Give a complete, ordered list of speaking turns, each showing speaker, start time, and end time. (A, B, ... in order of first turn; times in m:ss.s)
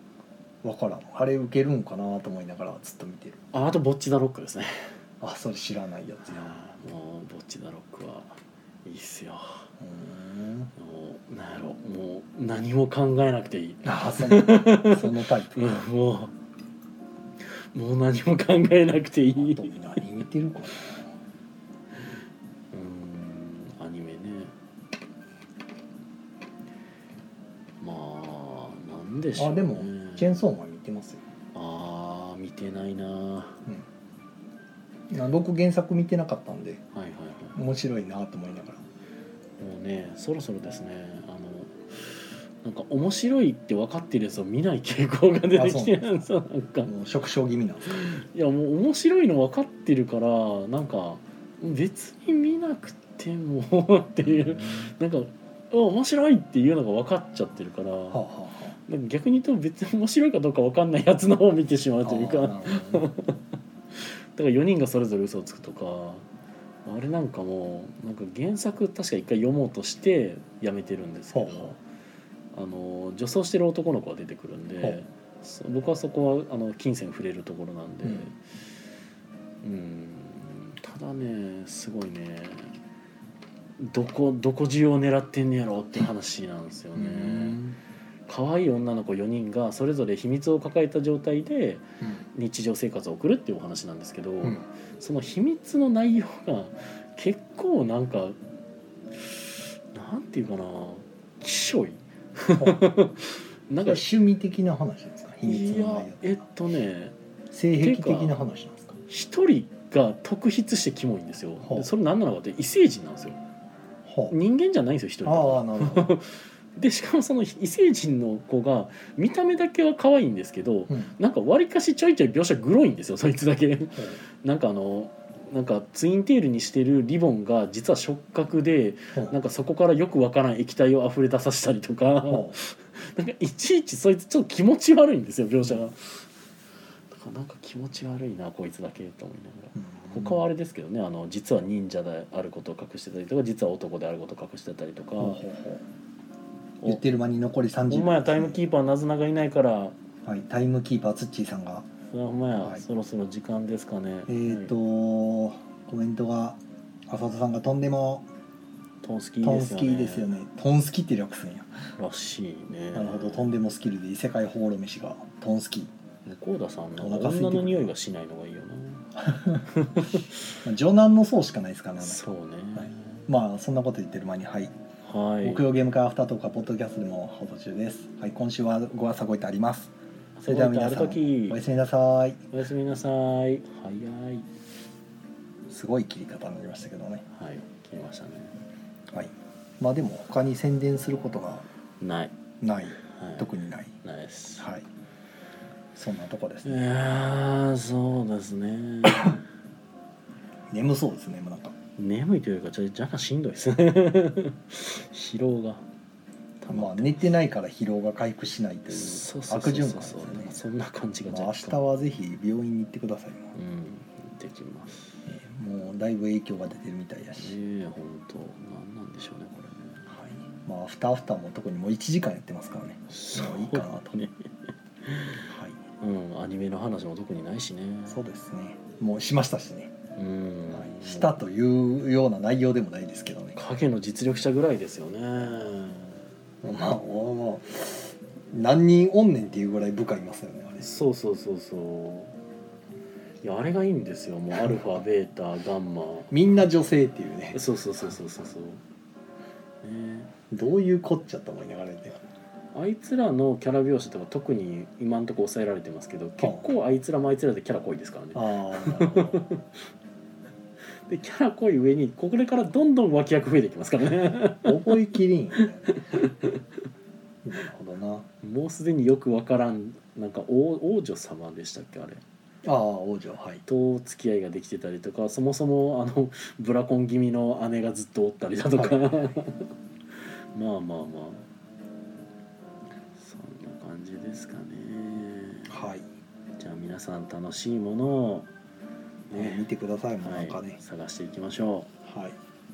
0:00.6-0:03.4 A
0:03.5-0:04.9 B
0:05.2-0:06.7 A
0:06.3-0:09.7 B
0:09.8-0:10.7 A
0:10.8-0:16.3 B
0:13.8-0:15.8 A
0:17.6-0:19.7 B
0:19.4-0:21.1 A
0:22.7-0:24.5 B
0:27.8-0:30.4 B
0:29.4-0:31.2 A
0:31.6-0:33.6 B
0:35.1-0:36.8 A
0:36.9-0:37.6 B
0:37.6-0:38.8 A
0:39.6-0:46.9 B
0:45.5-0:46.2 A
0:46.9-0:48.0 A
0:47.9-0:58.2 B
0:54.2-0:54.9 A
0:58.1-0:58.8 A
0:58.9-1:03.4 B
1:02.0-1:03.1 A
1:03.9-1:06.2 B
1:06.8-1:11.8 B
1:11.3-1:11.8 A
1:12.5-1:18.4 B
1:19.6-1:22.7 B
1:23.8-1:27.6 B
1:27.0-1:27.8 A
1:28.3-1:38.4 B
1:39.2-1:44.1 B
1:42.5-1:42.9 A
1:43.8-1:46.4 A
1:45.4-1:47.2 B
1:47.5-1:49.0 A
1:47.8-1:48.4 B
1:49.1-1:53.4 B
1:51.6-1:51.9 A
1:54.1-1:54.4 A
1:54.3-2:16.2 B
1:55.2-1:56.2 A
2:12.3-2:12.6 A
2:17.1-2:25.4 B
2:19.8-2:20.4 A
2:25.2-2:25.8 A
2:26.8-2:28.6 A
2:27.9-2:30.0 B
2:30.3-2:31.9 A
2:32.1-2:34.7 B
2:34.3-2:38.3 A
2:39.0-2:40.3 B
2:39.4-2:41.8 A
2:42.0-2:43.5 B
2:42.9-2:45.9 A
2:46.3-2:49.0 B
2:47.0-2:47.9 A
2:49.2-2:49.6 A
2:49.7-2:50.2 B
2:50.6-2:54.7 A
2:52.0-2:53.2 B
2:55.0-2:55.7 B
2:55.4-2:59.9 A
3:00.4-3:01.6 B
3:00.5-3:02.4 A
3:02.5-3:04.5 B
3:05.7-3:07.2 A
3:07.3-3:08.5 B
3:09.1-3:11.6 A
3:12.0-3:12.3 B
3:12.6-3:13.9 A
3:13.0-3:13.5 B
3:14.0-3:14.7 B
3:14.6-3:14.8 A
3:16.0-3:16.8 A
3:16.6-3:19.4 B
3:20.7-3:21.8 A
3:22.0-3:25.8 B
3:26.6-3:27.3 B
3:26.7-3:30.6 A
3:28.9-3:31.8 B
3:31.3-3:33.5 A
3:33.6-3:35.0 B
3:35.3-3:37.6 A
3:37.4-3:40.0 B
3:40.1-3:44.2 A
3:43.1-3:44.5 B
3:45.0-3:45.5 B
3:45.4-3:45.8 A
3:46.0-3:48.3 B
3:48.1-3:49.9 A
3:50.2-3:51.4 B
3:50.7-3:53.6 A
3:53.6-3:56.2 B
3:56.6-4:00.9 A
4:00.8-4:02.3 B
4:03.4-4:06.3 B
4:06.3-4:07.6 A
4:07.5-4:08.8 B
4:09.8-4:10.3 B
4:10.5-4:12.2 A
4:12.7-4:19.6 B
4:18.4-4:19.5 A
4:21.1-4:25.0 B
4:24.6-4:26.0 A
4:25.9-4:26.6 B
4:27.4-4:28.3 A
4:28.4-4:32.2 B
4:32.6-4:33.6 A
4:33.7-4:39.7 B
4:38.8-4:39.0 A
4:40.5-4:41.4 B
4:43.2-4:45.7 B
4:45.7-4:46.1 A
4:46.6-4:48.5 B
4:49.3-4:49.7 B
4:49.3-4:50.8 A
4:50.2-4:51.9 B
4:52.0-4:52.4 A